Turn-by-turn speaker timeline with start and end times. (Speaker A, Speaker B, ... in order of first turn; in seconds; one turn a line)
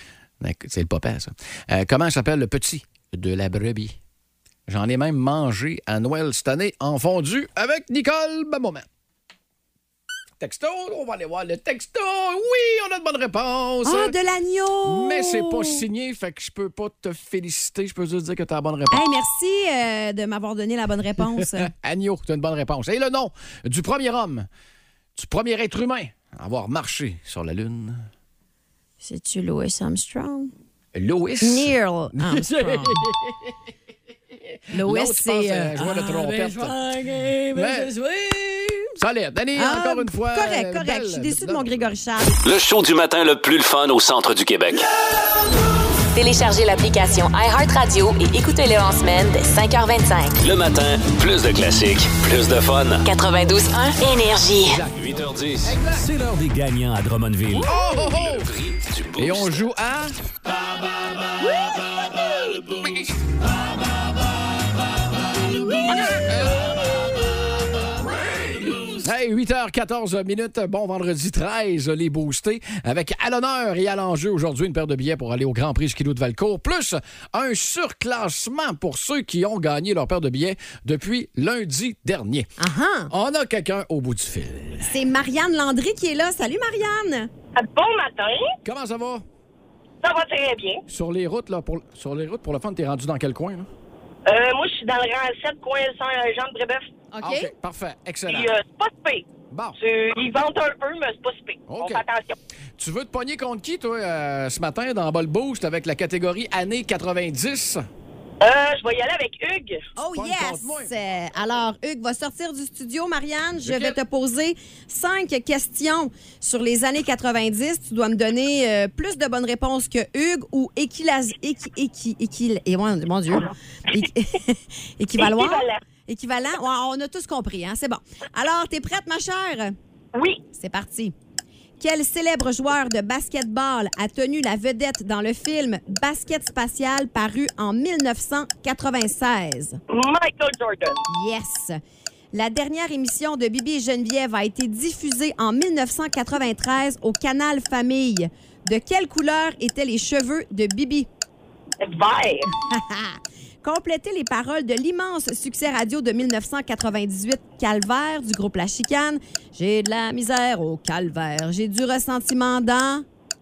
Speaker A: 0.4-4.0
Speaker A: 4.7-8.9
Speaker A: 10.4-14.2
Speaker B: 13.8-15.8
Speaker A: 14.8-19.0
Speaker B: 18.9-21.7
Speaker A: 21.4-24.5
Speaker A: 25.1-28.1
Speaker B: 29.0-30.5
Speaker A: 30.9-33.5
Speaker B: 31.4-33.0
Speaker A: 34.5-36.8
Speaker B: 34.7-35.8
Speaker A: 37.5-38.0
Speaker B: 38.5-38.8
Speaker A: 39.0-41.9
Speaker B: 39.6-42.4
Speaker C: 42.4-44.9
Speaker D: 46.1-50.4
Speaker C: 50.4-53.0
Speaker D: 53.0-54.8
Speaker A: 54.6-56.1
Speaker C: 54.9-59.6
Speaker A: 57.6-58.5
Speaker B: 57.7-58.0
Speaker A: 59.2-60.2
Speaker A: 62.7-63.2
Speaker A: 65.7-67.1
Speaker A: 68.8-82.5
Speaker B: 82.6-83.1
Speaker A: 83.1-84.9
Speaker B: 84.8-87.3
Speaker E: 87.5-88.5
Speaker A: 88.7-89.2
Speaker E: 90.0-90.8
Speaker A: 90.9-93.7
Speaker E: 94.3-96.9
Speaker B: 97.1-97.5
Speaker A: 97.2-98.5
Speaker E: 98.3-102.4
Speaker A: 99.5-99.8
Speaker A: 101.7-102.0
Speaker A: 102.8-107.8
Speaker E: 108.4-109.9
Speaker B: 110.0-129.8
Speaker A: 110.0-110.9
Speaker A: 113.7-114.0
Speaker E: 125.2-125.8
Speaker E: 130.1-130.4
Speaker B: 130.5-131.2
Speaker B: 131.8-139.8
Speaker E: 139.9-141.1
Speaker B: 141.1-141.8
Speaker B: 142.3-151.1
Speaker E: 151.8-152.5
Speaker B: 152.7-163.1